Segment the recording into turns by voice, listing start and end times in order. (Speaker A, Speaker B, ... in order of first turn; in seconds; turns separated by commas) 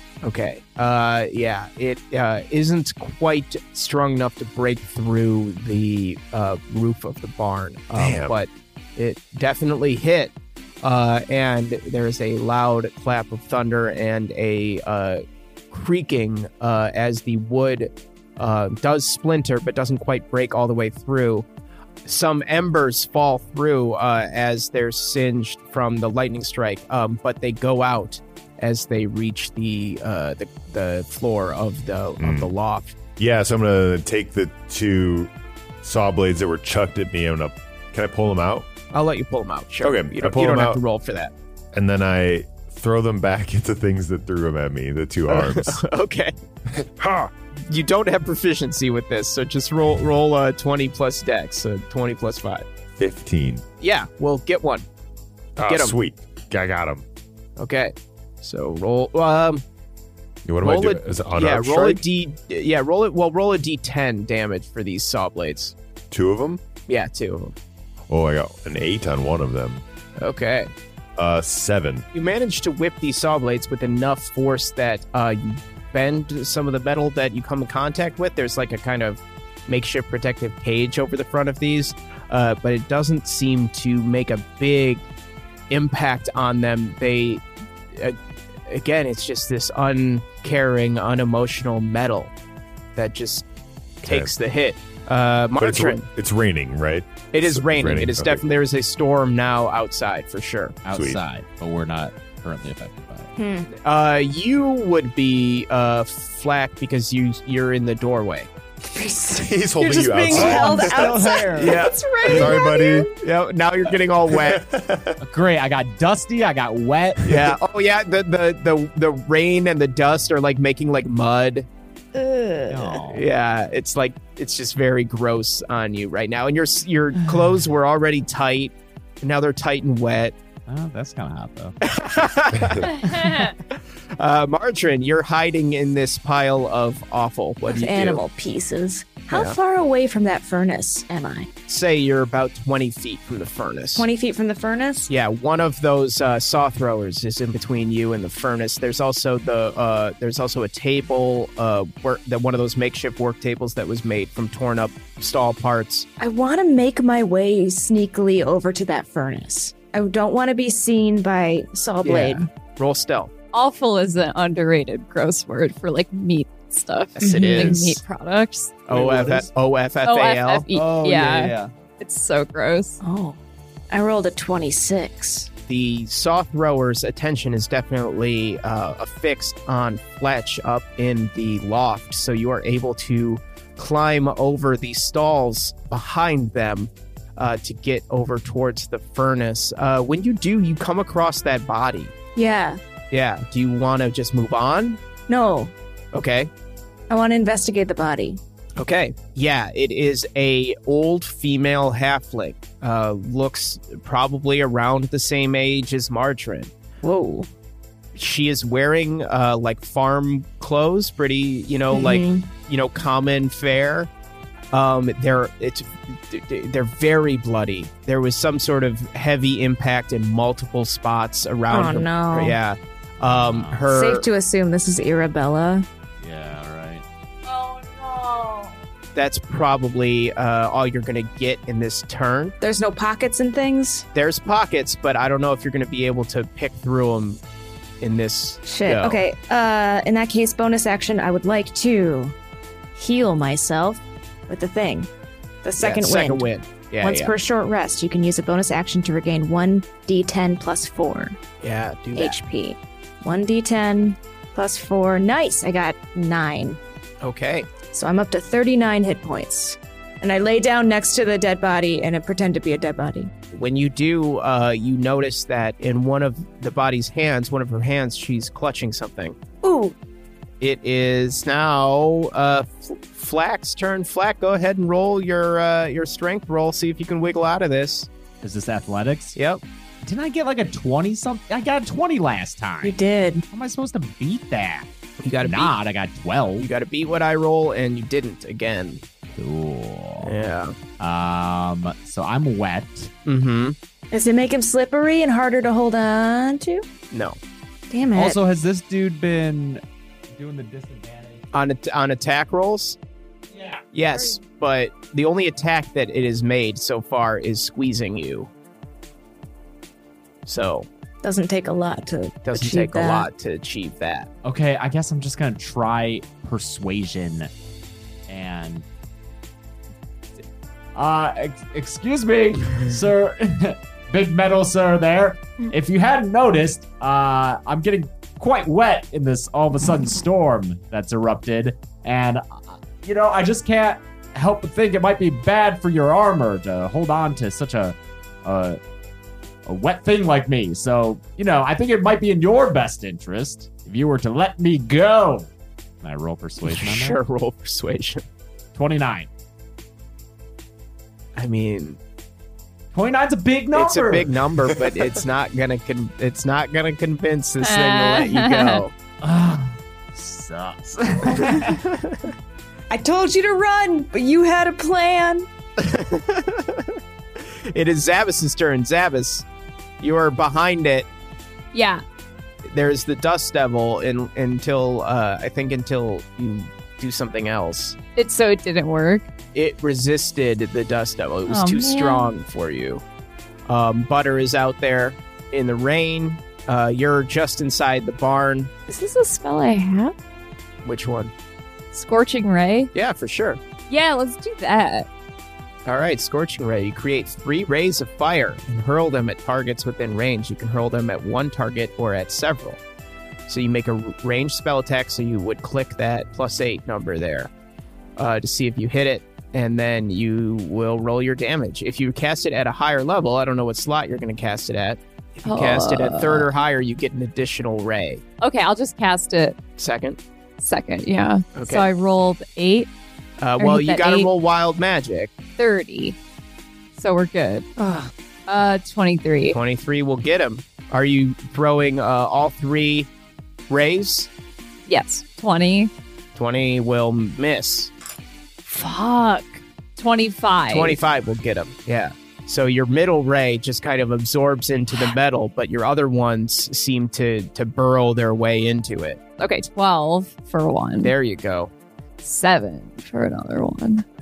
Speaker A: 0.2-21.4, Speaker B: 8.0-8.3, Speaker A: 22.0-32.9, Speaker B: 32.2-32.5, Speaker B: 33.2-38.7, Speaker A: 38.9-41.3, Speaker B: 39.8-40.8, Speaker B: 41.7-45.8, Speaker A: 45.3-46.3, Speaker B: 46.7-47.3, Speaker A: 47.7-52.6, Speaker B: 53.0-53.6, Speaker A: 53.8-54.9, Speaker B: 55.6-57.0, Speaker A: 55.6-56.0, Speaker A: 57.6-59.6, Speaker B: 60.4-62.0, Speaker A: 60.6-65.7, Speaker B: 66.1-66.6, Speaker A: 66.9-67.5, Speaker B: 68.1-69.8, Speaker A: 70.2-70.7, Speaker B: 71.2-72.0, Speaker A: 72.1-85.0, Speaker A: 85.7-92.3, Speaker A: 93.0-93.5, Speaker A: 94.0-96.0, Speaker B: 94.0-94.3, Speaker B: 95.6-98.5, Speaker A: 97.3-100.7, Speaker C: 100.8-103.3, Speaker B: 100.9-101.2, Speaker D: 103.4-103.7, Speaker A: 103.7-108.5, Speaker D: 108.9-113.1, Speaker B: 109.4-111.4, Speaker C: 110.3-111.8, Speaker A: 111.5-112.5, Speaker B: 112.3-113.1, Speaker A: 113.2-114.6, Speaker B: 114.3-115.2, Speaker C: 115.2-117.4, Speaker A: 117.2-121.7, Speaker D: 122.1-122.9, Speaker C: 122.7-123.2, Speaker A: 123.0-130.3, Speaker C: 130.7-131.8, Speaker A: 131.8-133.5, Speaker E: 133.2-133.5, Speaker A: 134.2-138.2, Speaker D: 137.7-141.5, Speaker A: 139.3-139.6, Speaker A: 141.7-144.1, Speaker D: 143.9-145.1, Speaker A: 145.1-156.1, Speaker D: 156.2-162.5, Speaker A: 162.0-163.3, Speaker E: 163.5-168.8, Speaker A: 167.2-168.0, Speaker D: 167.2-167.8, Speaker A: 168.9-170.7, Speaker C: 168.9-169.5, Speaker E: 170.0-173.0, Speaker C: 170.7-171.7, Speaker D: 173.0-173.4, Speaker D: 173.9-175.5, Speaker A: 175.7-192.1, Speaker D: 192.3-192.8, Speaker A: 193.1-195.0, Speaker D: 195.3-195.7, Speaker A: 196.1-196.5, Speaker D: 197.1-198.4, Speaker A: 198.8-206.7, Speaker D: 207.0-207.5, Speaker A: 208.1-214.1, Speaker D: 211.9-212.5, Speaker A: 214.7-224.3, Speaker D: 221.7-222.6, Speaker C: 223.2-223.9, Speaker D: 223.9-225.8, Speaker C: 226.2-227.0, Speaker E: 227.4-228.7, Speaker A: 229.1-232.5, Speaker D: 232.6-234.1, Speaker A: 234.1-237.4, Speaker A: 238.0-239.2, Speaker D: 238.7-242.3, Speaker D: 242.9-245.1, Speaker D: 245.6-246.5, Speaker A: 245.8-247.3, Speaker D: 247.0-251.4, Speaker A: 251.6-252.4, Speaker D: 252.2-256.8, Speaker A: 257.2-257.7, Speaker D: 257.9-263.3, Speaker A: 263.5-269.4, Speaker D: 269.6-269.9, Speaker A: 270.6-278.1, Speaker C: 278.4-279.4, Speaker A: 279.3-279.6, Speaker C: 280.0-283.0, Speaker D: 282.8-283.4, Speaker C: 283.5-284.9, Speaker A: 285.2-285.8, Speaker C: 285.4-286.7, Speaker A: 286.6-289.0, Speaker C: 289.3-290.3, Speaker A: 290.2-290.7, Speaker C: 291.0-293.1, Speaker A: 293.2-293.8, Speaker D: 294.1-296.8, Speaker A: 297.1-297.4, Speaker D: 297.9-298.4, Speaker C: 298.1-299.8, Speaker C: 300.3-301.4, Speaker A: 301.5-303.0, Speaker C: 303.5-303.9, Speaker A: 303.9-308.5, Speaker A: 310.4-310.9, Speaker D: 311.2-313.3, Speaker A: 312.4-314.3, Speaker C: 314.4-317.5, Speaker C: 318.3-318.8, Speaker C: 320.9-338.8, Speaker C: 339.6-345.5, Speaker C: 346.0-347.2, Speaker A: 346.6-348.2, Speaker C: 348.7-349.3, Speaker A: 351.4-352.0, Speaker C: 352.9-354.4, Speaker A: 353.7-358.9, Speaker E: 357.6-358.8, Speaker C: 359.2-361.8, Speaker A: 361.8-362.2, Speaker D: 362.9-365.5, Speaker A: 365.8-366.9, Speaker A: 367.4-369.4, Speaker A: 370.0-371.1, Speaker E: 371.7-372.0, Speaker A: 372.6-378.0, Speaker E: 378.1-379.3, Speaker A: 379.5-383.0, Speaker E: 381.5-382.3, Speaker A: 383.7-388.7, Speaker E: 388.9-390.1, Speaker A: 390.8-391.3, Speaker E: 391.9-392.9, Speaker A: 392.9-393.6, Speaker E: 393.9-395.1, Speaker A: 395.9-402.8, Speaker A: 403.5-407.5, Speaker A: 408.2-418.2, Speaker E: 415.4-416.5, Speaker E: 418.4-419.6, Speaker A: 419.8-420.2, Speaker E: 420.6-422.9, Speaker A: 421.5-421.9, Speaker A: 423.4-425.3, Speaker E: 423.6-424.3, Speaker E: 425.6-426.2, Speaker E: 426.9-427.7, Speaker D: 427.8-428.1, Speaker E: 428.5-429.6, Speaker A: 429.5-433.1, Speaker A: 433.7-434.3, Speaker E: 434.9-435.9, Speaker A: 436.3-437.9, Speaker E: 438.6-441.0, Speaker A: 440.7-449.2, Speaker E: 449.4-451.1, Speaker A: 451.0-451.7, Speaker E: 452.2-454.0